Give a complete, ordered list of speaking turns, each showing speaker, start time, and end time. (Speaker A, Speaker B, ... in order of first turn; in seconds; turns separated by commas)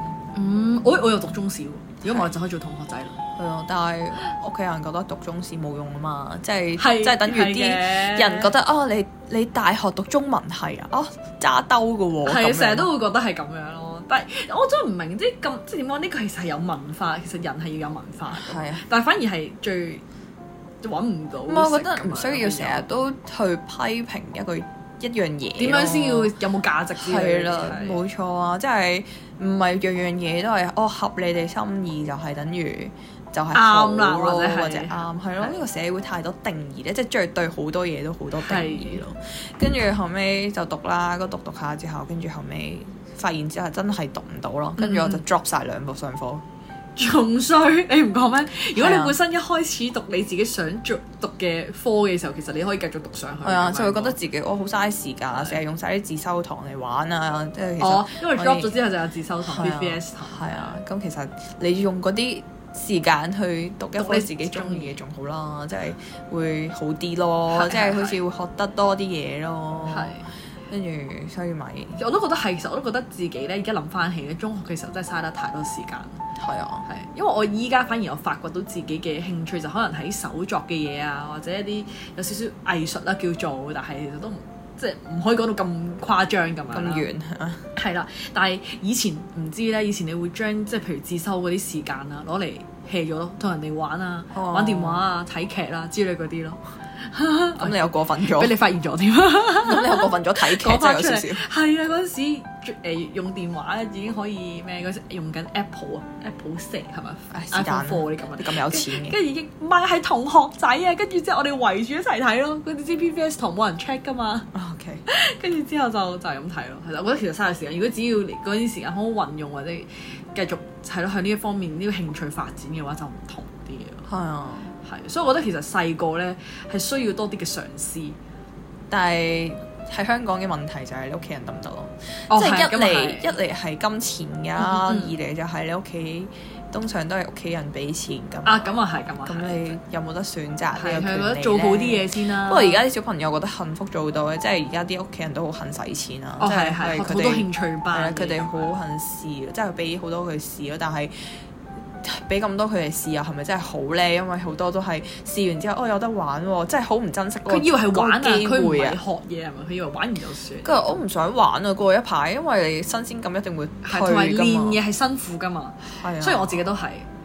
Speaker A: 0.3-3.2, Speaker B: 2.0-2.3, Speaker B: 3.4-12.9, Speaker A: 6.8-8.5, Speaker A: 12.2-20.0, Speaker B: 18.3-18.8, Speaker A: 20.8-22.8, Speaker B: 21.5-26.3, Speaker A: 25.6-28.0, Speaker B: 26.9-46.4, Speaker A: 33.5-35.5, Speaker A: 38.4-39.0, Speaker A: 44.8-45.2, Speaker A: 47.0-54.1, Speaker B: 48.8-49.1, Speaker B: 53.4-58.7, Speaker A: 57.8-60.6, Speaker B: 59.4-70.2, Speaker A: 64.0-65.0, Speaker A: 67.5-68.2, Speaker A: 69.9-70.3, Speaker B: 70.7-72.0, Speaker A: 72.0-76.2, Speaker B: 76.4-76.8, Speaker A: 76.8-87.1, Speaker B: 86.7-87.7, Speaker A: 87.8-114.5, Speaker B: 94.3-95.0, Speaker B: 97.6-98.6, Speaker B: 99.6-101.4, Speaker B: 107.3-109.2, Speaker B: 114.5-115.0, Speaker A: 115.1-124.1, Speaker B: 124.1-124.7, Speaker A: 124.8-128.2, Speaker B: 128.9-138.7, Speaker A: 132.3-133.4, Speaker A: 134.6-135.1, Speaker A: 138.4-139.8, Speaker B: 139.2-151.1, Speaker A: 140.7-142.8, Speaker A: 146.4-148.7, Speaker B: 152.0-159.0, Speaker A: 157.4-161.0, Speaker B: 160.6-164.8, Speaker A: 163.8-167.1, Speaker B: 166.0-166.6